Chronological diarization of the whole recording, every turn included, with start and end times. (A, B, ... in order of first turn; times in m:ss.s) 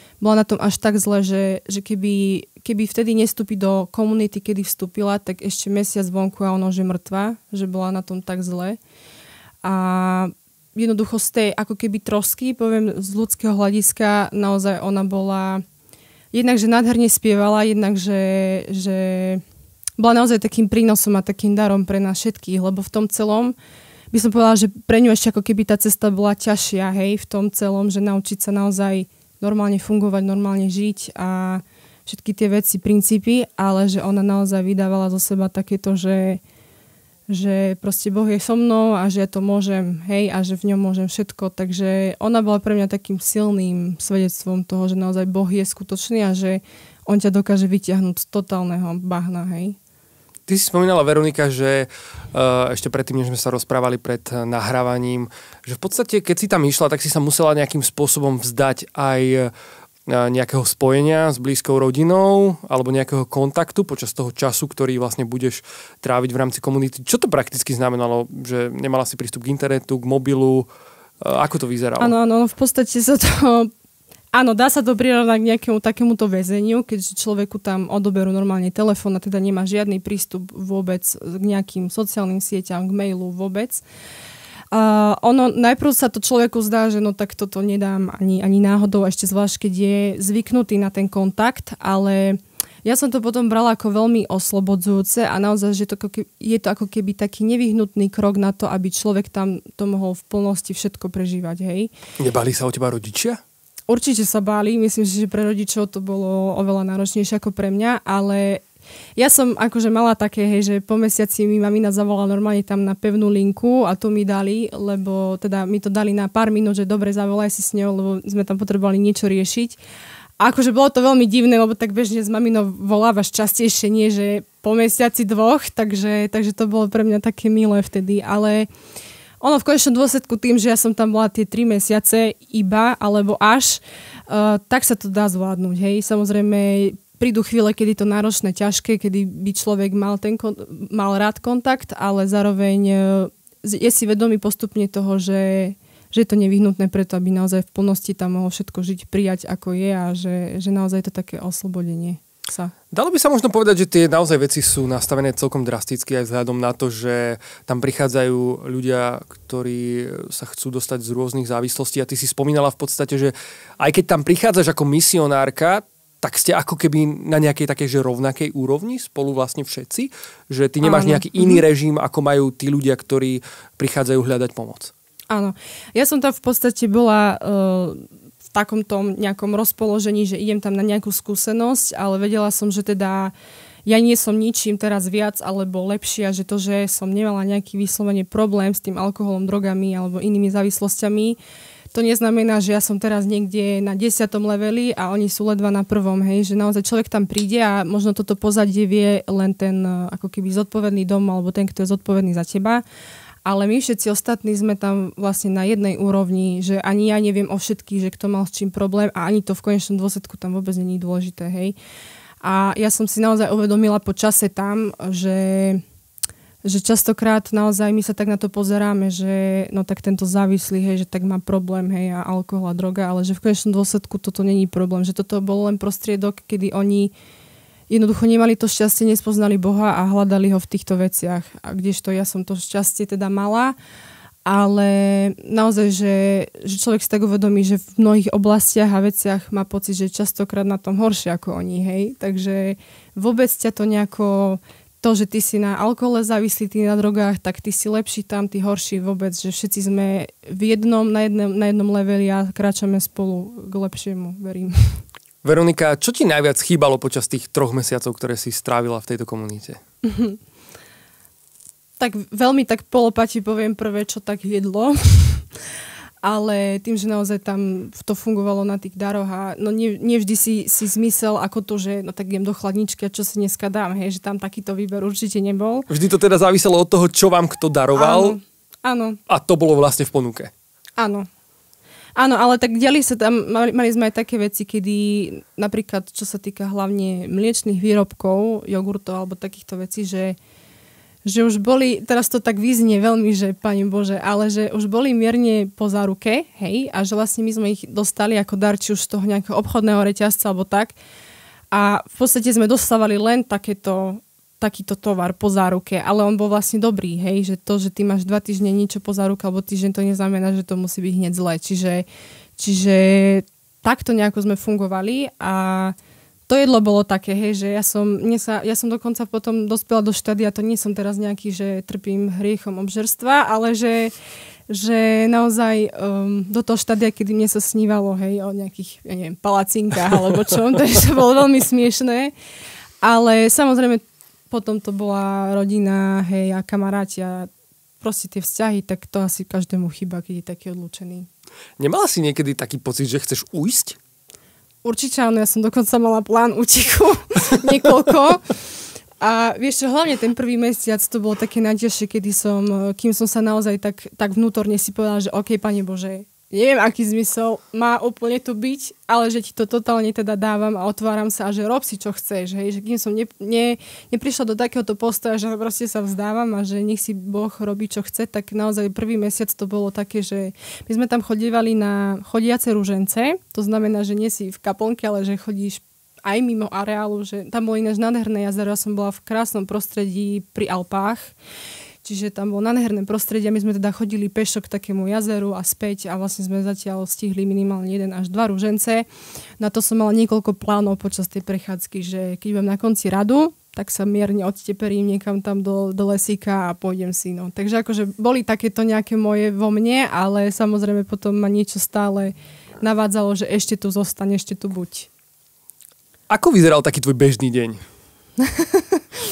0:00.2-0:08.8 A
0:09.6-0:15.6 A
0:16.3-0:19.4 A
0:20.0-0:23.6 A
0:24.1-0:36.4 A
0:37.3-0:49.8 A
0:50.5-0:59.5 B
1:00.1-1:10.7 B
1:11.2-1:12.1 B
1:12.0-1:13.7 A
1:14.3-1:23.8 A
1:24.7-1:41.9 A
1:42.2-1:43.4 B
1:43.9-1:48.6 A
1:49.2-1:59.8 A
2:00.4-2:08.7 A
2:09.4-2:32.7 A
2:32.9-2:54.9 B
2:50.8-2:51.6 A
2:55.3-3:03.3 A
3:03.8-3:11.4 A
3:11.9-3:22.8 A
3:23.4-3:31.7 A
3:32.4-3:35.8 A
3:36.6-3:47.1 A
3:47.9-3:53.7 A
3:54.4-4:15.0 A
4:15.4-4:19.8 B
4:20.0-4:20.4 A
4:22.0-4:25.5 A
4:26.2-4:35.9 A
4:35.9-4:38.4 B
4:38.0-4:39.2 A
4:39.3-4:40.5 B
4:41.0-4:41.3 A
4:42.2-4:50.4 A
4:51.2-5:00.9 A
5:01.7-5:12.0 A
5:12.6-5:16.0 A
5:16.5-5:24.1 A
5:24.7-5:32.3 A
5:33.0-5:37.5 A
5:38.0-5:41.3 A
5:41.8-5:44.0 B
5:44.8-5:48.4 A
5:49.2-6:21.3 A
6:22.0-6:29.0 A
6:29.6-6:45.1 A
6:46.3-6:47.8 B
6:48.4-6:49.0 A